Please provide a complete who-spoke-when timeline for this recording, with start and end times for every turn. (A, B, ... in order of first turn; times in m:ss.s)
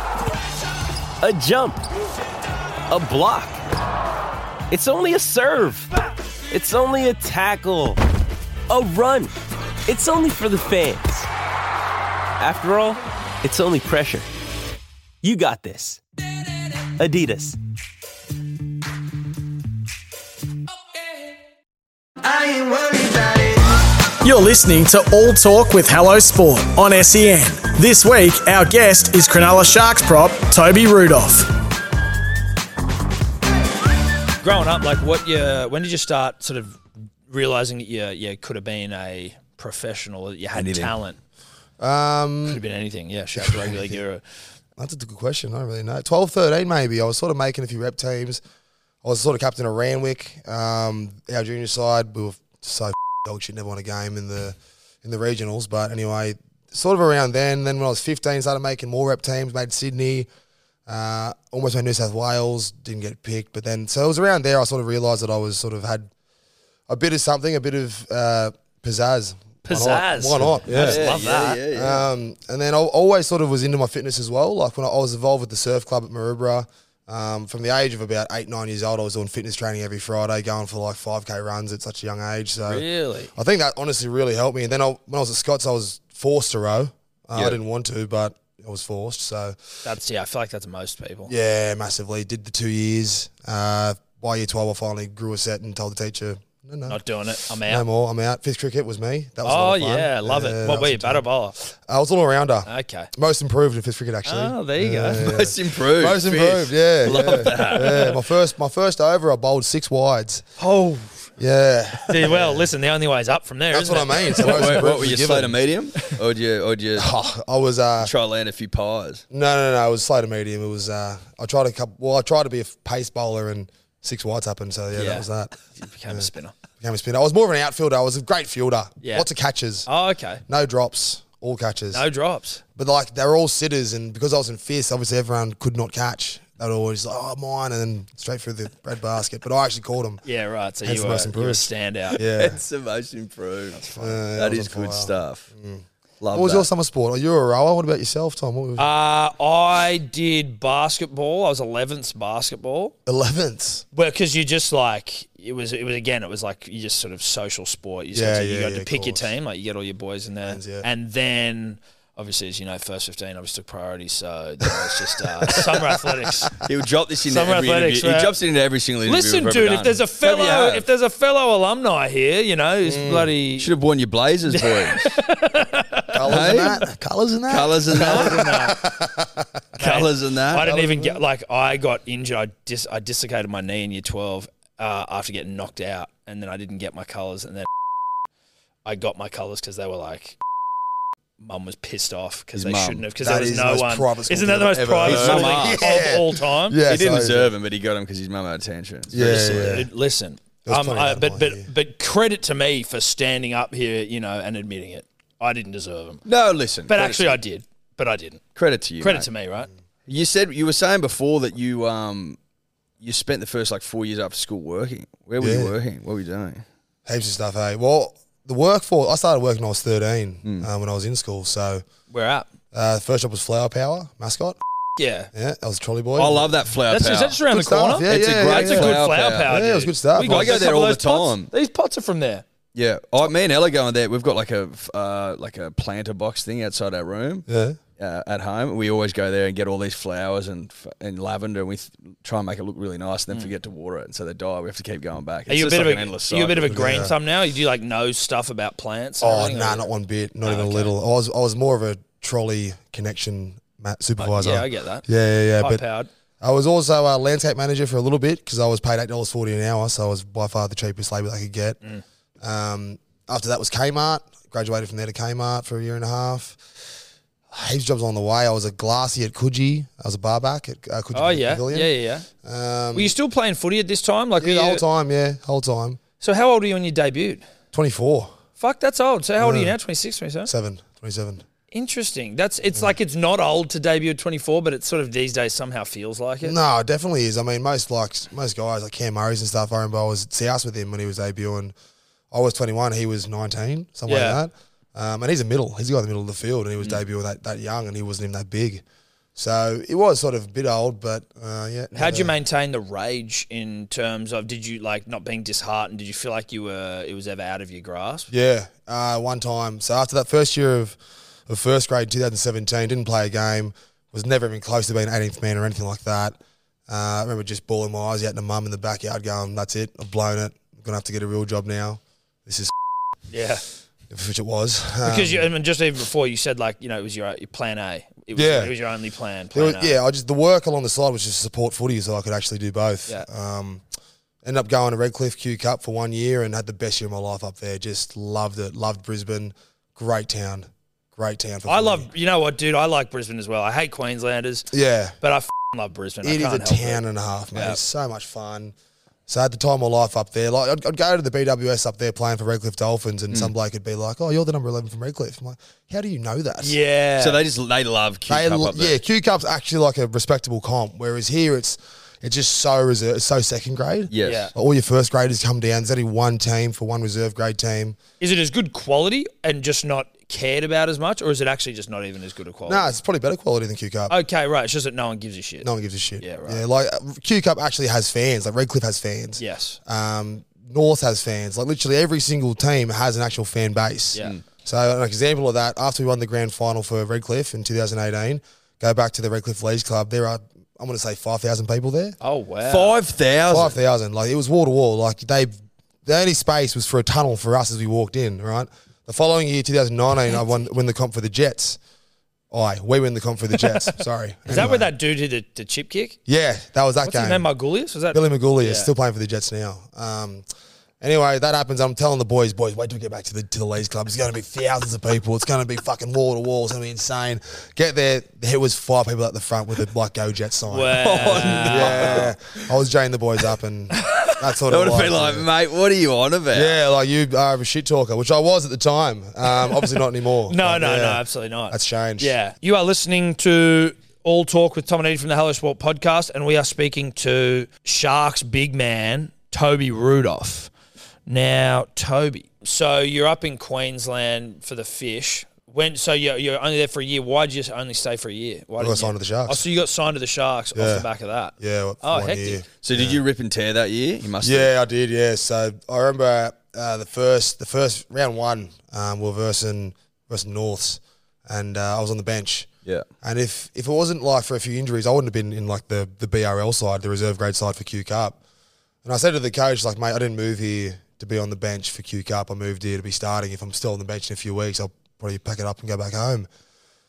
0:01.2-0:01.9 A
0:02.9-0:03.6 A
0:04.7-0:05.9 A
0:06.5-0:08.0 A
0:08.7-0:09.3 A
0:09.8-0:11.3 A
0:12.4-0:14.3 A
0:15.2-0:16.0 A
0:16.9-0:17.6 A
0:22.2-0:23.6 B
0:24.4-0:31.5 B
0:34.4-0:41.2 C
0:40.5-0:40.9 D
0:41.8-0:42.6 E
0:42.4-0:44.2 C
0:43.3-0:44.0 E
0:44.8-0:48.4 E
0:49.0-1:00.3 E
1:00.9-1:06.1 E
1:06.9-1:29.6 E
1:09.6-1:11.6 C
1:10.6-1:12.1 D
1:22.7-1:23.3 C
1:27.3-1:27.6 D
1:29.8-1:31.3 C
1:31.2-1:50.4 E
1:36.9-1:37.8 C
1:39.4-1:41.6 C
1:42.6-1:43.1 C
1:44.2-1:45.3 C
1:45.2-1:48.1 D
1:47.1-1:48.1 C
1:50.6-1:51.2 C
1:51.4-1:52.7 E
1:52.1-1:54.9 C
1:53.7-1:55.6 E
1:54.4-1:57.1 D
1:57.0-1:58.1 E
1:58.0-1:59.2 D
1:59.3-2:05.5 E
2:04.9-2:06.5 C
2:06.8-2:09.9 E
2:09.0-2:09.3 C
2:09.8-2:10.4 C
2:10.5-2:12.0 E
2:11.9-2:12.6 C
2:12.7-2:20.2 E
2:20.2-2:22.2 C
2:20.8-2:22.6 E
2:22.1-2:25.5 D
2:23.8-2:28.9 E
2:23.9-2:24.2 C
2:26.2-2:26.7 D
2:28.8-2:32.9 C
2:33.0-2:33.8 E
2:33.9-2:46.6 C
2:38.1-2:39.3 E
2:40.4-2:40.9 E
2:45.5-2:46.5 E
2:46.6-2:50.8 D
2:47.2-2:48.3 C
2:49.0-2:53.7 C
2:52.8-2:53.3 E
2:53.6-2:55.2 D
2:54.5-2:56.5 C
2:56.1-2:59.8 E
2:56.3-2:56.8 D
2:57.5-2:58.5 D
2:57.9-2:58.8 C
2:59.8-3:07.7 C
2:59.8-3:00.7 D
3:00.6-3:01.2 E
3:08.8-3:10.4 C
3:11.4-3:16.8 C
3:12.5-3:13.1 D
3:13.2-3:17.5 E
3:15.0-3:15.9 D
3:16.8-3:19.7 D
3:19.1-3:19.9 E
3:19.1-3:26.2 C
3:20.6-3:21.7 E
3:26.2-3:27.4 D
3:26.8-3:28.4 C
3:28.5-3:29.3 D
3:29.0-3:29.7 C
3:30.1-3:32.4 D
3:33.0-3:36.6 D
3:35.4-3:35.7 E
3:37.0-3:41.8 E
3:42.1-3:42.5 C
3:42.7-3:44.6 E
3:45.0-3:45.3 C
3:45.3-3:46.6 E
3:46.2-3:47.4 D
3:46.9-3:52.4 C
3:47.5-3:50.6 E
3:48.4-3:49.6 D
3:50.2-3:51.5 D
3:52.7-3:57.5 D
3:57.4-3:57.8 E
3:58.0-4:06.9 D
4:05.5-4:09.9 C
4:06.7-4:07.1 E
4:09.2-4:15.8 E
4:10.4-4:11.0 C
4:14.2-4:15.0 C
4:15.6-4:16.1 C
4:16.4-4:21.8 E
4:22.4-4:26.6 E
4:27.5-4:33.1 E
4:31.1-4:32.3 C
4:32.9-4:34.8 C
4:34.4-4:36.0 E
4:36.2-4:37.4 C
4:37.7-4:38.3 E
4:38.6-4:40.5 C
4:39.4-4:39.8 E
4:40.4-4:41.4 E
4:41.7-4:46.6 C
4:46.4-4:51.7 E
4:52.3-4:58.8 E
4:54.1-4:54.4 C
4:59.4-5:02.3 E
5:01.9-5:08.3 C
5:08.3-5:16.4 E
5:16.9-5:22.7 E
5:23.3-5:23.6 C
5:24.1-5:25.5 E
5:25.0-5:30.0 C
5:28.3-5:28.7 E
5:29.5-5:33.8 E
5:34.4-5:42.1 E
5:41.6-5:47.8 C
5:44.7-5:45.2 E
5:46.2-5:48.7 E
5:49.3-5:56.8 E
5:56.6-5:57.4 C
5:57.2-5:59.0 D
5:58.3-6:08.0 E
6:04.1-6:04.5 D
6:04.2-6:04.5 C
6:08.2-6:12.9 C
6:12.6-6:14.2 E
6:14.1-6:16.6 C
6:15.6-6:32.2 E
6:19.4-6:19.8 C
6:24.1-6:24.4 C
6:32.2-6:33.0 C
6:32.6-6:33.8 D
6:33.5-6:35.5 E
6:36.0-6:41.8 E
6:42.5-6:44.9 E
6:43.6-6:46.2 C
6:46.3-6:47.5 E
6:47.0-6:48.9 C
6:48.1-6:50.4 E
6:51.0-7:05.5 E
7:00.7-7:02.3 C
7:01.0-7:02.4 D
7:04.0-7:04.4 C
7:04.7-7:06.8 D
7:06.5-7:12.4 E
7:10.5-7:20.7 C
7:21.2-7:32.6 C
7:28.8-7:29.7 E
7:30.7-7:33.2 E
7:32.8-7:34.7 D
7:34.4-7:42.7 E
7:43.2-7:48.4 E
7:49.0-7:56.5 E